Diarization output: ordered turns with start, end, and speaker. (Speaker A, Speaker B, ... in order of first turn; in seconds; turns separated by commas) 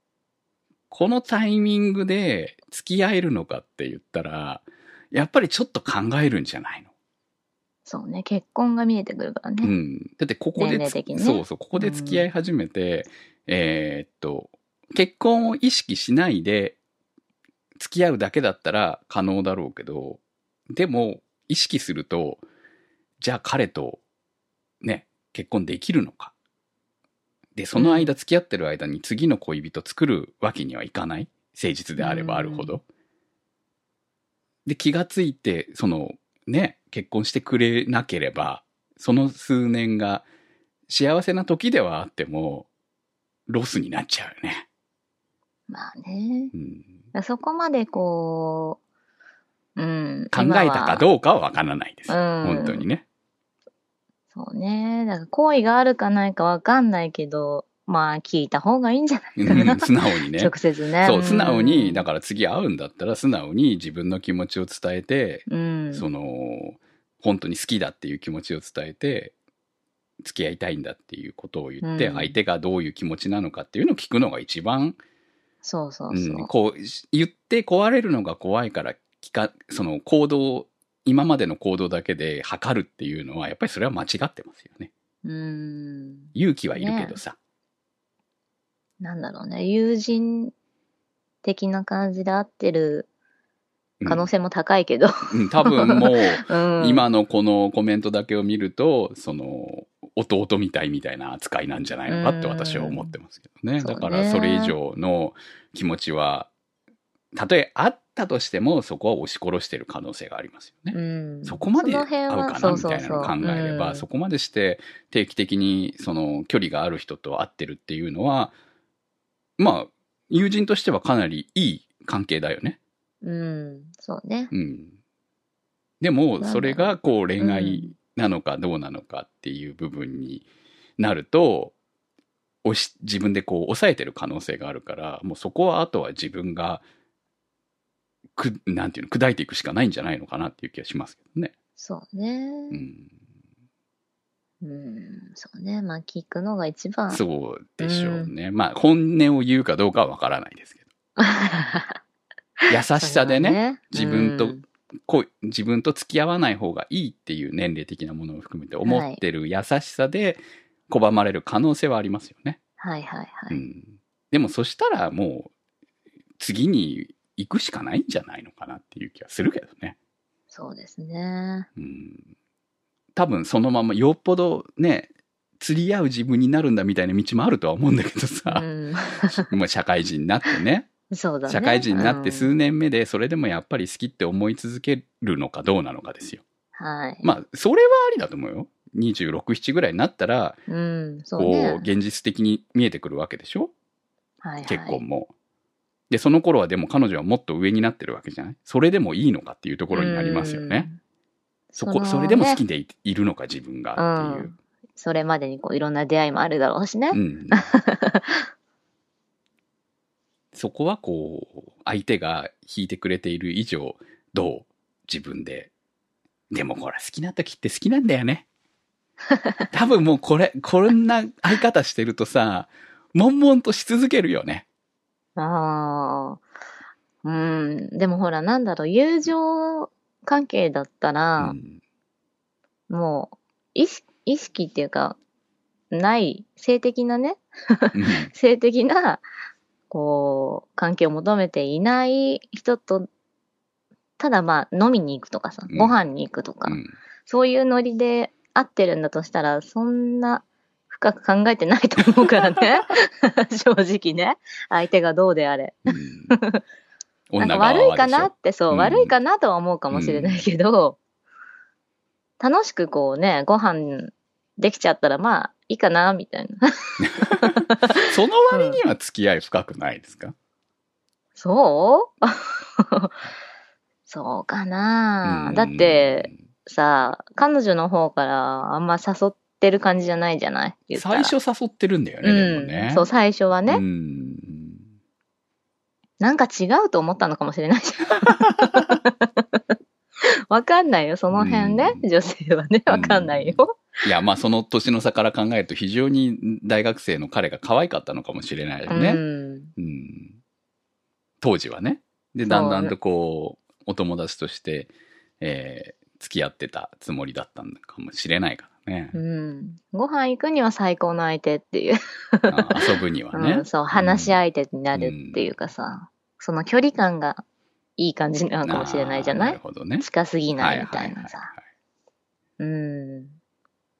Speaker A: 0.9-6.9, Speaker B: 7.8-9.7, Speaker A: 9.6-16.8, Speaker B: 10.6-12.3, Speaker A: 17.8-20.2, Speaker A: 20.7-22.4, Speaker A: 23.2-24.0, Speaker A: 24.8-26.3, Speaker A: 27.6-32.8, Speaker B: 27.7-28.2, Speaker B: 32.0-32.8, Speaker A: 34.6-40.3, Speaker A: 40.9-42.7, Speaker A: 43.5-44.6, Speaker B: 45.7-46.5, Speaker A: 46.5-46.9, Speaker B: 47.1-48.8, Speaker B: 49.8-51.0, Speaker A: 50.3-53.0, Speaker B: 52.1-52.9, Speaker B: 54.3-62.0, Speaker A: 59.4-69.3, Speaker B: 65.5-66.1, Speaker A: 70.2-75.0, Speaker B: 71.8-72.4, Speaker B: 75.6-76.5, Speaker A: 76.1-84.9, Speaker B: 85.2-87.2, Speaker A: 86.3-87.4, Speaker B: 89.0-90.5, Speaker B: 91.4-93.1, Speaker A: 94.0-94.3, Speaker B: 94.0-97.1, Speaker A: 95.3-106.5, Speaker B: 102.1-103.1, Speaker B: 103.8-104.8, Speaker A: 107.3-118.5, Speaker B: 110.9-114.0, Speaker A: 119.6-122.8, Speaker B: 123.2-124.5, Speaker A: 124.5-124.9, Speaker A: 126.0-130.4, Speaker B: 126.4-127.9, Speaker A: 131.0-131.7, Speaker A: 132.6-136.8, Speaker A: 138.3-141.5, Speaker B: 141.8-142.8, Speaker A: 142.7-143.1, Speaker B: 144.6-147.2, Speaker A: 147.1-150.8, Speaker B: 147.8-148.3, Speaker B: 151.2-152.0, Speaker B: 152.6-154.6, Speaker A: 152.7-162.6, Speaker B: 158.8-159.2, Speaker B: 162.8-163.6, Speaker A: 163.5-165.5, Speaker A: 166.4-169.9, Speaker B: 170.5-171.7, Speaker A: 171.8-172.3, Speaker A: 173.2-180.9, Speaker B: 178.5-179.4, Speaker B: 181.1-182.5, Speaker A: 181.5-186.4, Speaker B: 186.8-187.2, Speaker A: 187.2-190.6, Speaker B: 190.7-191.9, Speaker A: 191.4-193.7, Speaker B: 194.4-195.0, Speaker A: 194.6-195.3, Speaker A: 196.1-200.9, Speaker B: 199.9-201.0, Speaker B: 201.7-202.6, Speaker A: 201.8-204.5, Speaker B: 204.0-208.4, Speaker A: 207.1-207.7, Speaker A: 210.5-215.7, Speaker A: 216.5-218.4, Speaker A: 219.7-224.7, Speaker B: 225.3-226.4, Speaker B: 227.2-231.6, Speaker A: 231.4-231.8, Speaker B: 232.9-235.2, Speaker B: 235.9-239.2, Speaker A: 237.9-238.3, Speaker B: 239.9-243.1, Speaker B: 244.2-256.6, Speaker A: 245.7-246.0, Speaker A: 246.6-246.9, Speaker A: 255.9-256.3, Speaker A: 257.3-259.1, Speaker B: 257.4-261.0, Speaker A: 259.9-260.5, Speaker B: 262.4-268.8, Speaker A: 267.0-270.3, Speaker B: 271.4-273.1, Speaker B: 274.1-281.3, Speaker A: 275.2-276.4, Speaker A: 280.9-283.1, Speaker B: 282.2-283.8, Speaker A: 283.7-284.8, Speaker B: 286.2-289.6, Speaker A: 288.3-289.0, Speaker B: 290.5-293.8, Speaker A: 291.3-292.0, Speaker A: 292.9-299.2, Speaker B: 298.9-299.7, Speaker A: 299.8-300.4, Speaker A: 301.4-309.2, Speaker B: 302.4-302.9, Speaker B: 309.1-312.8, Speaker A: 312.5-314.4, Speaker B: 313.3-317.4, Speaker A: 314.9-315.5, Speaker B: 318.0-321.5, Speaker A: 318.6-320.1, Speaker A: 320.6-321.6, Speaker B: 322.6-323.4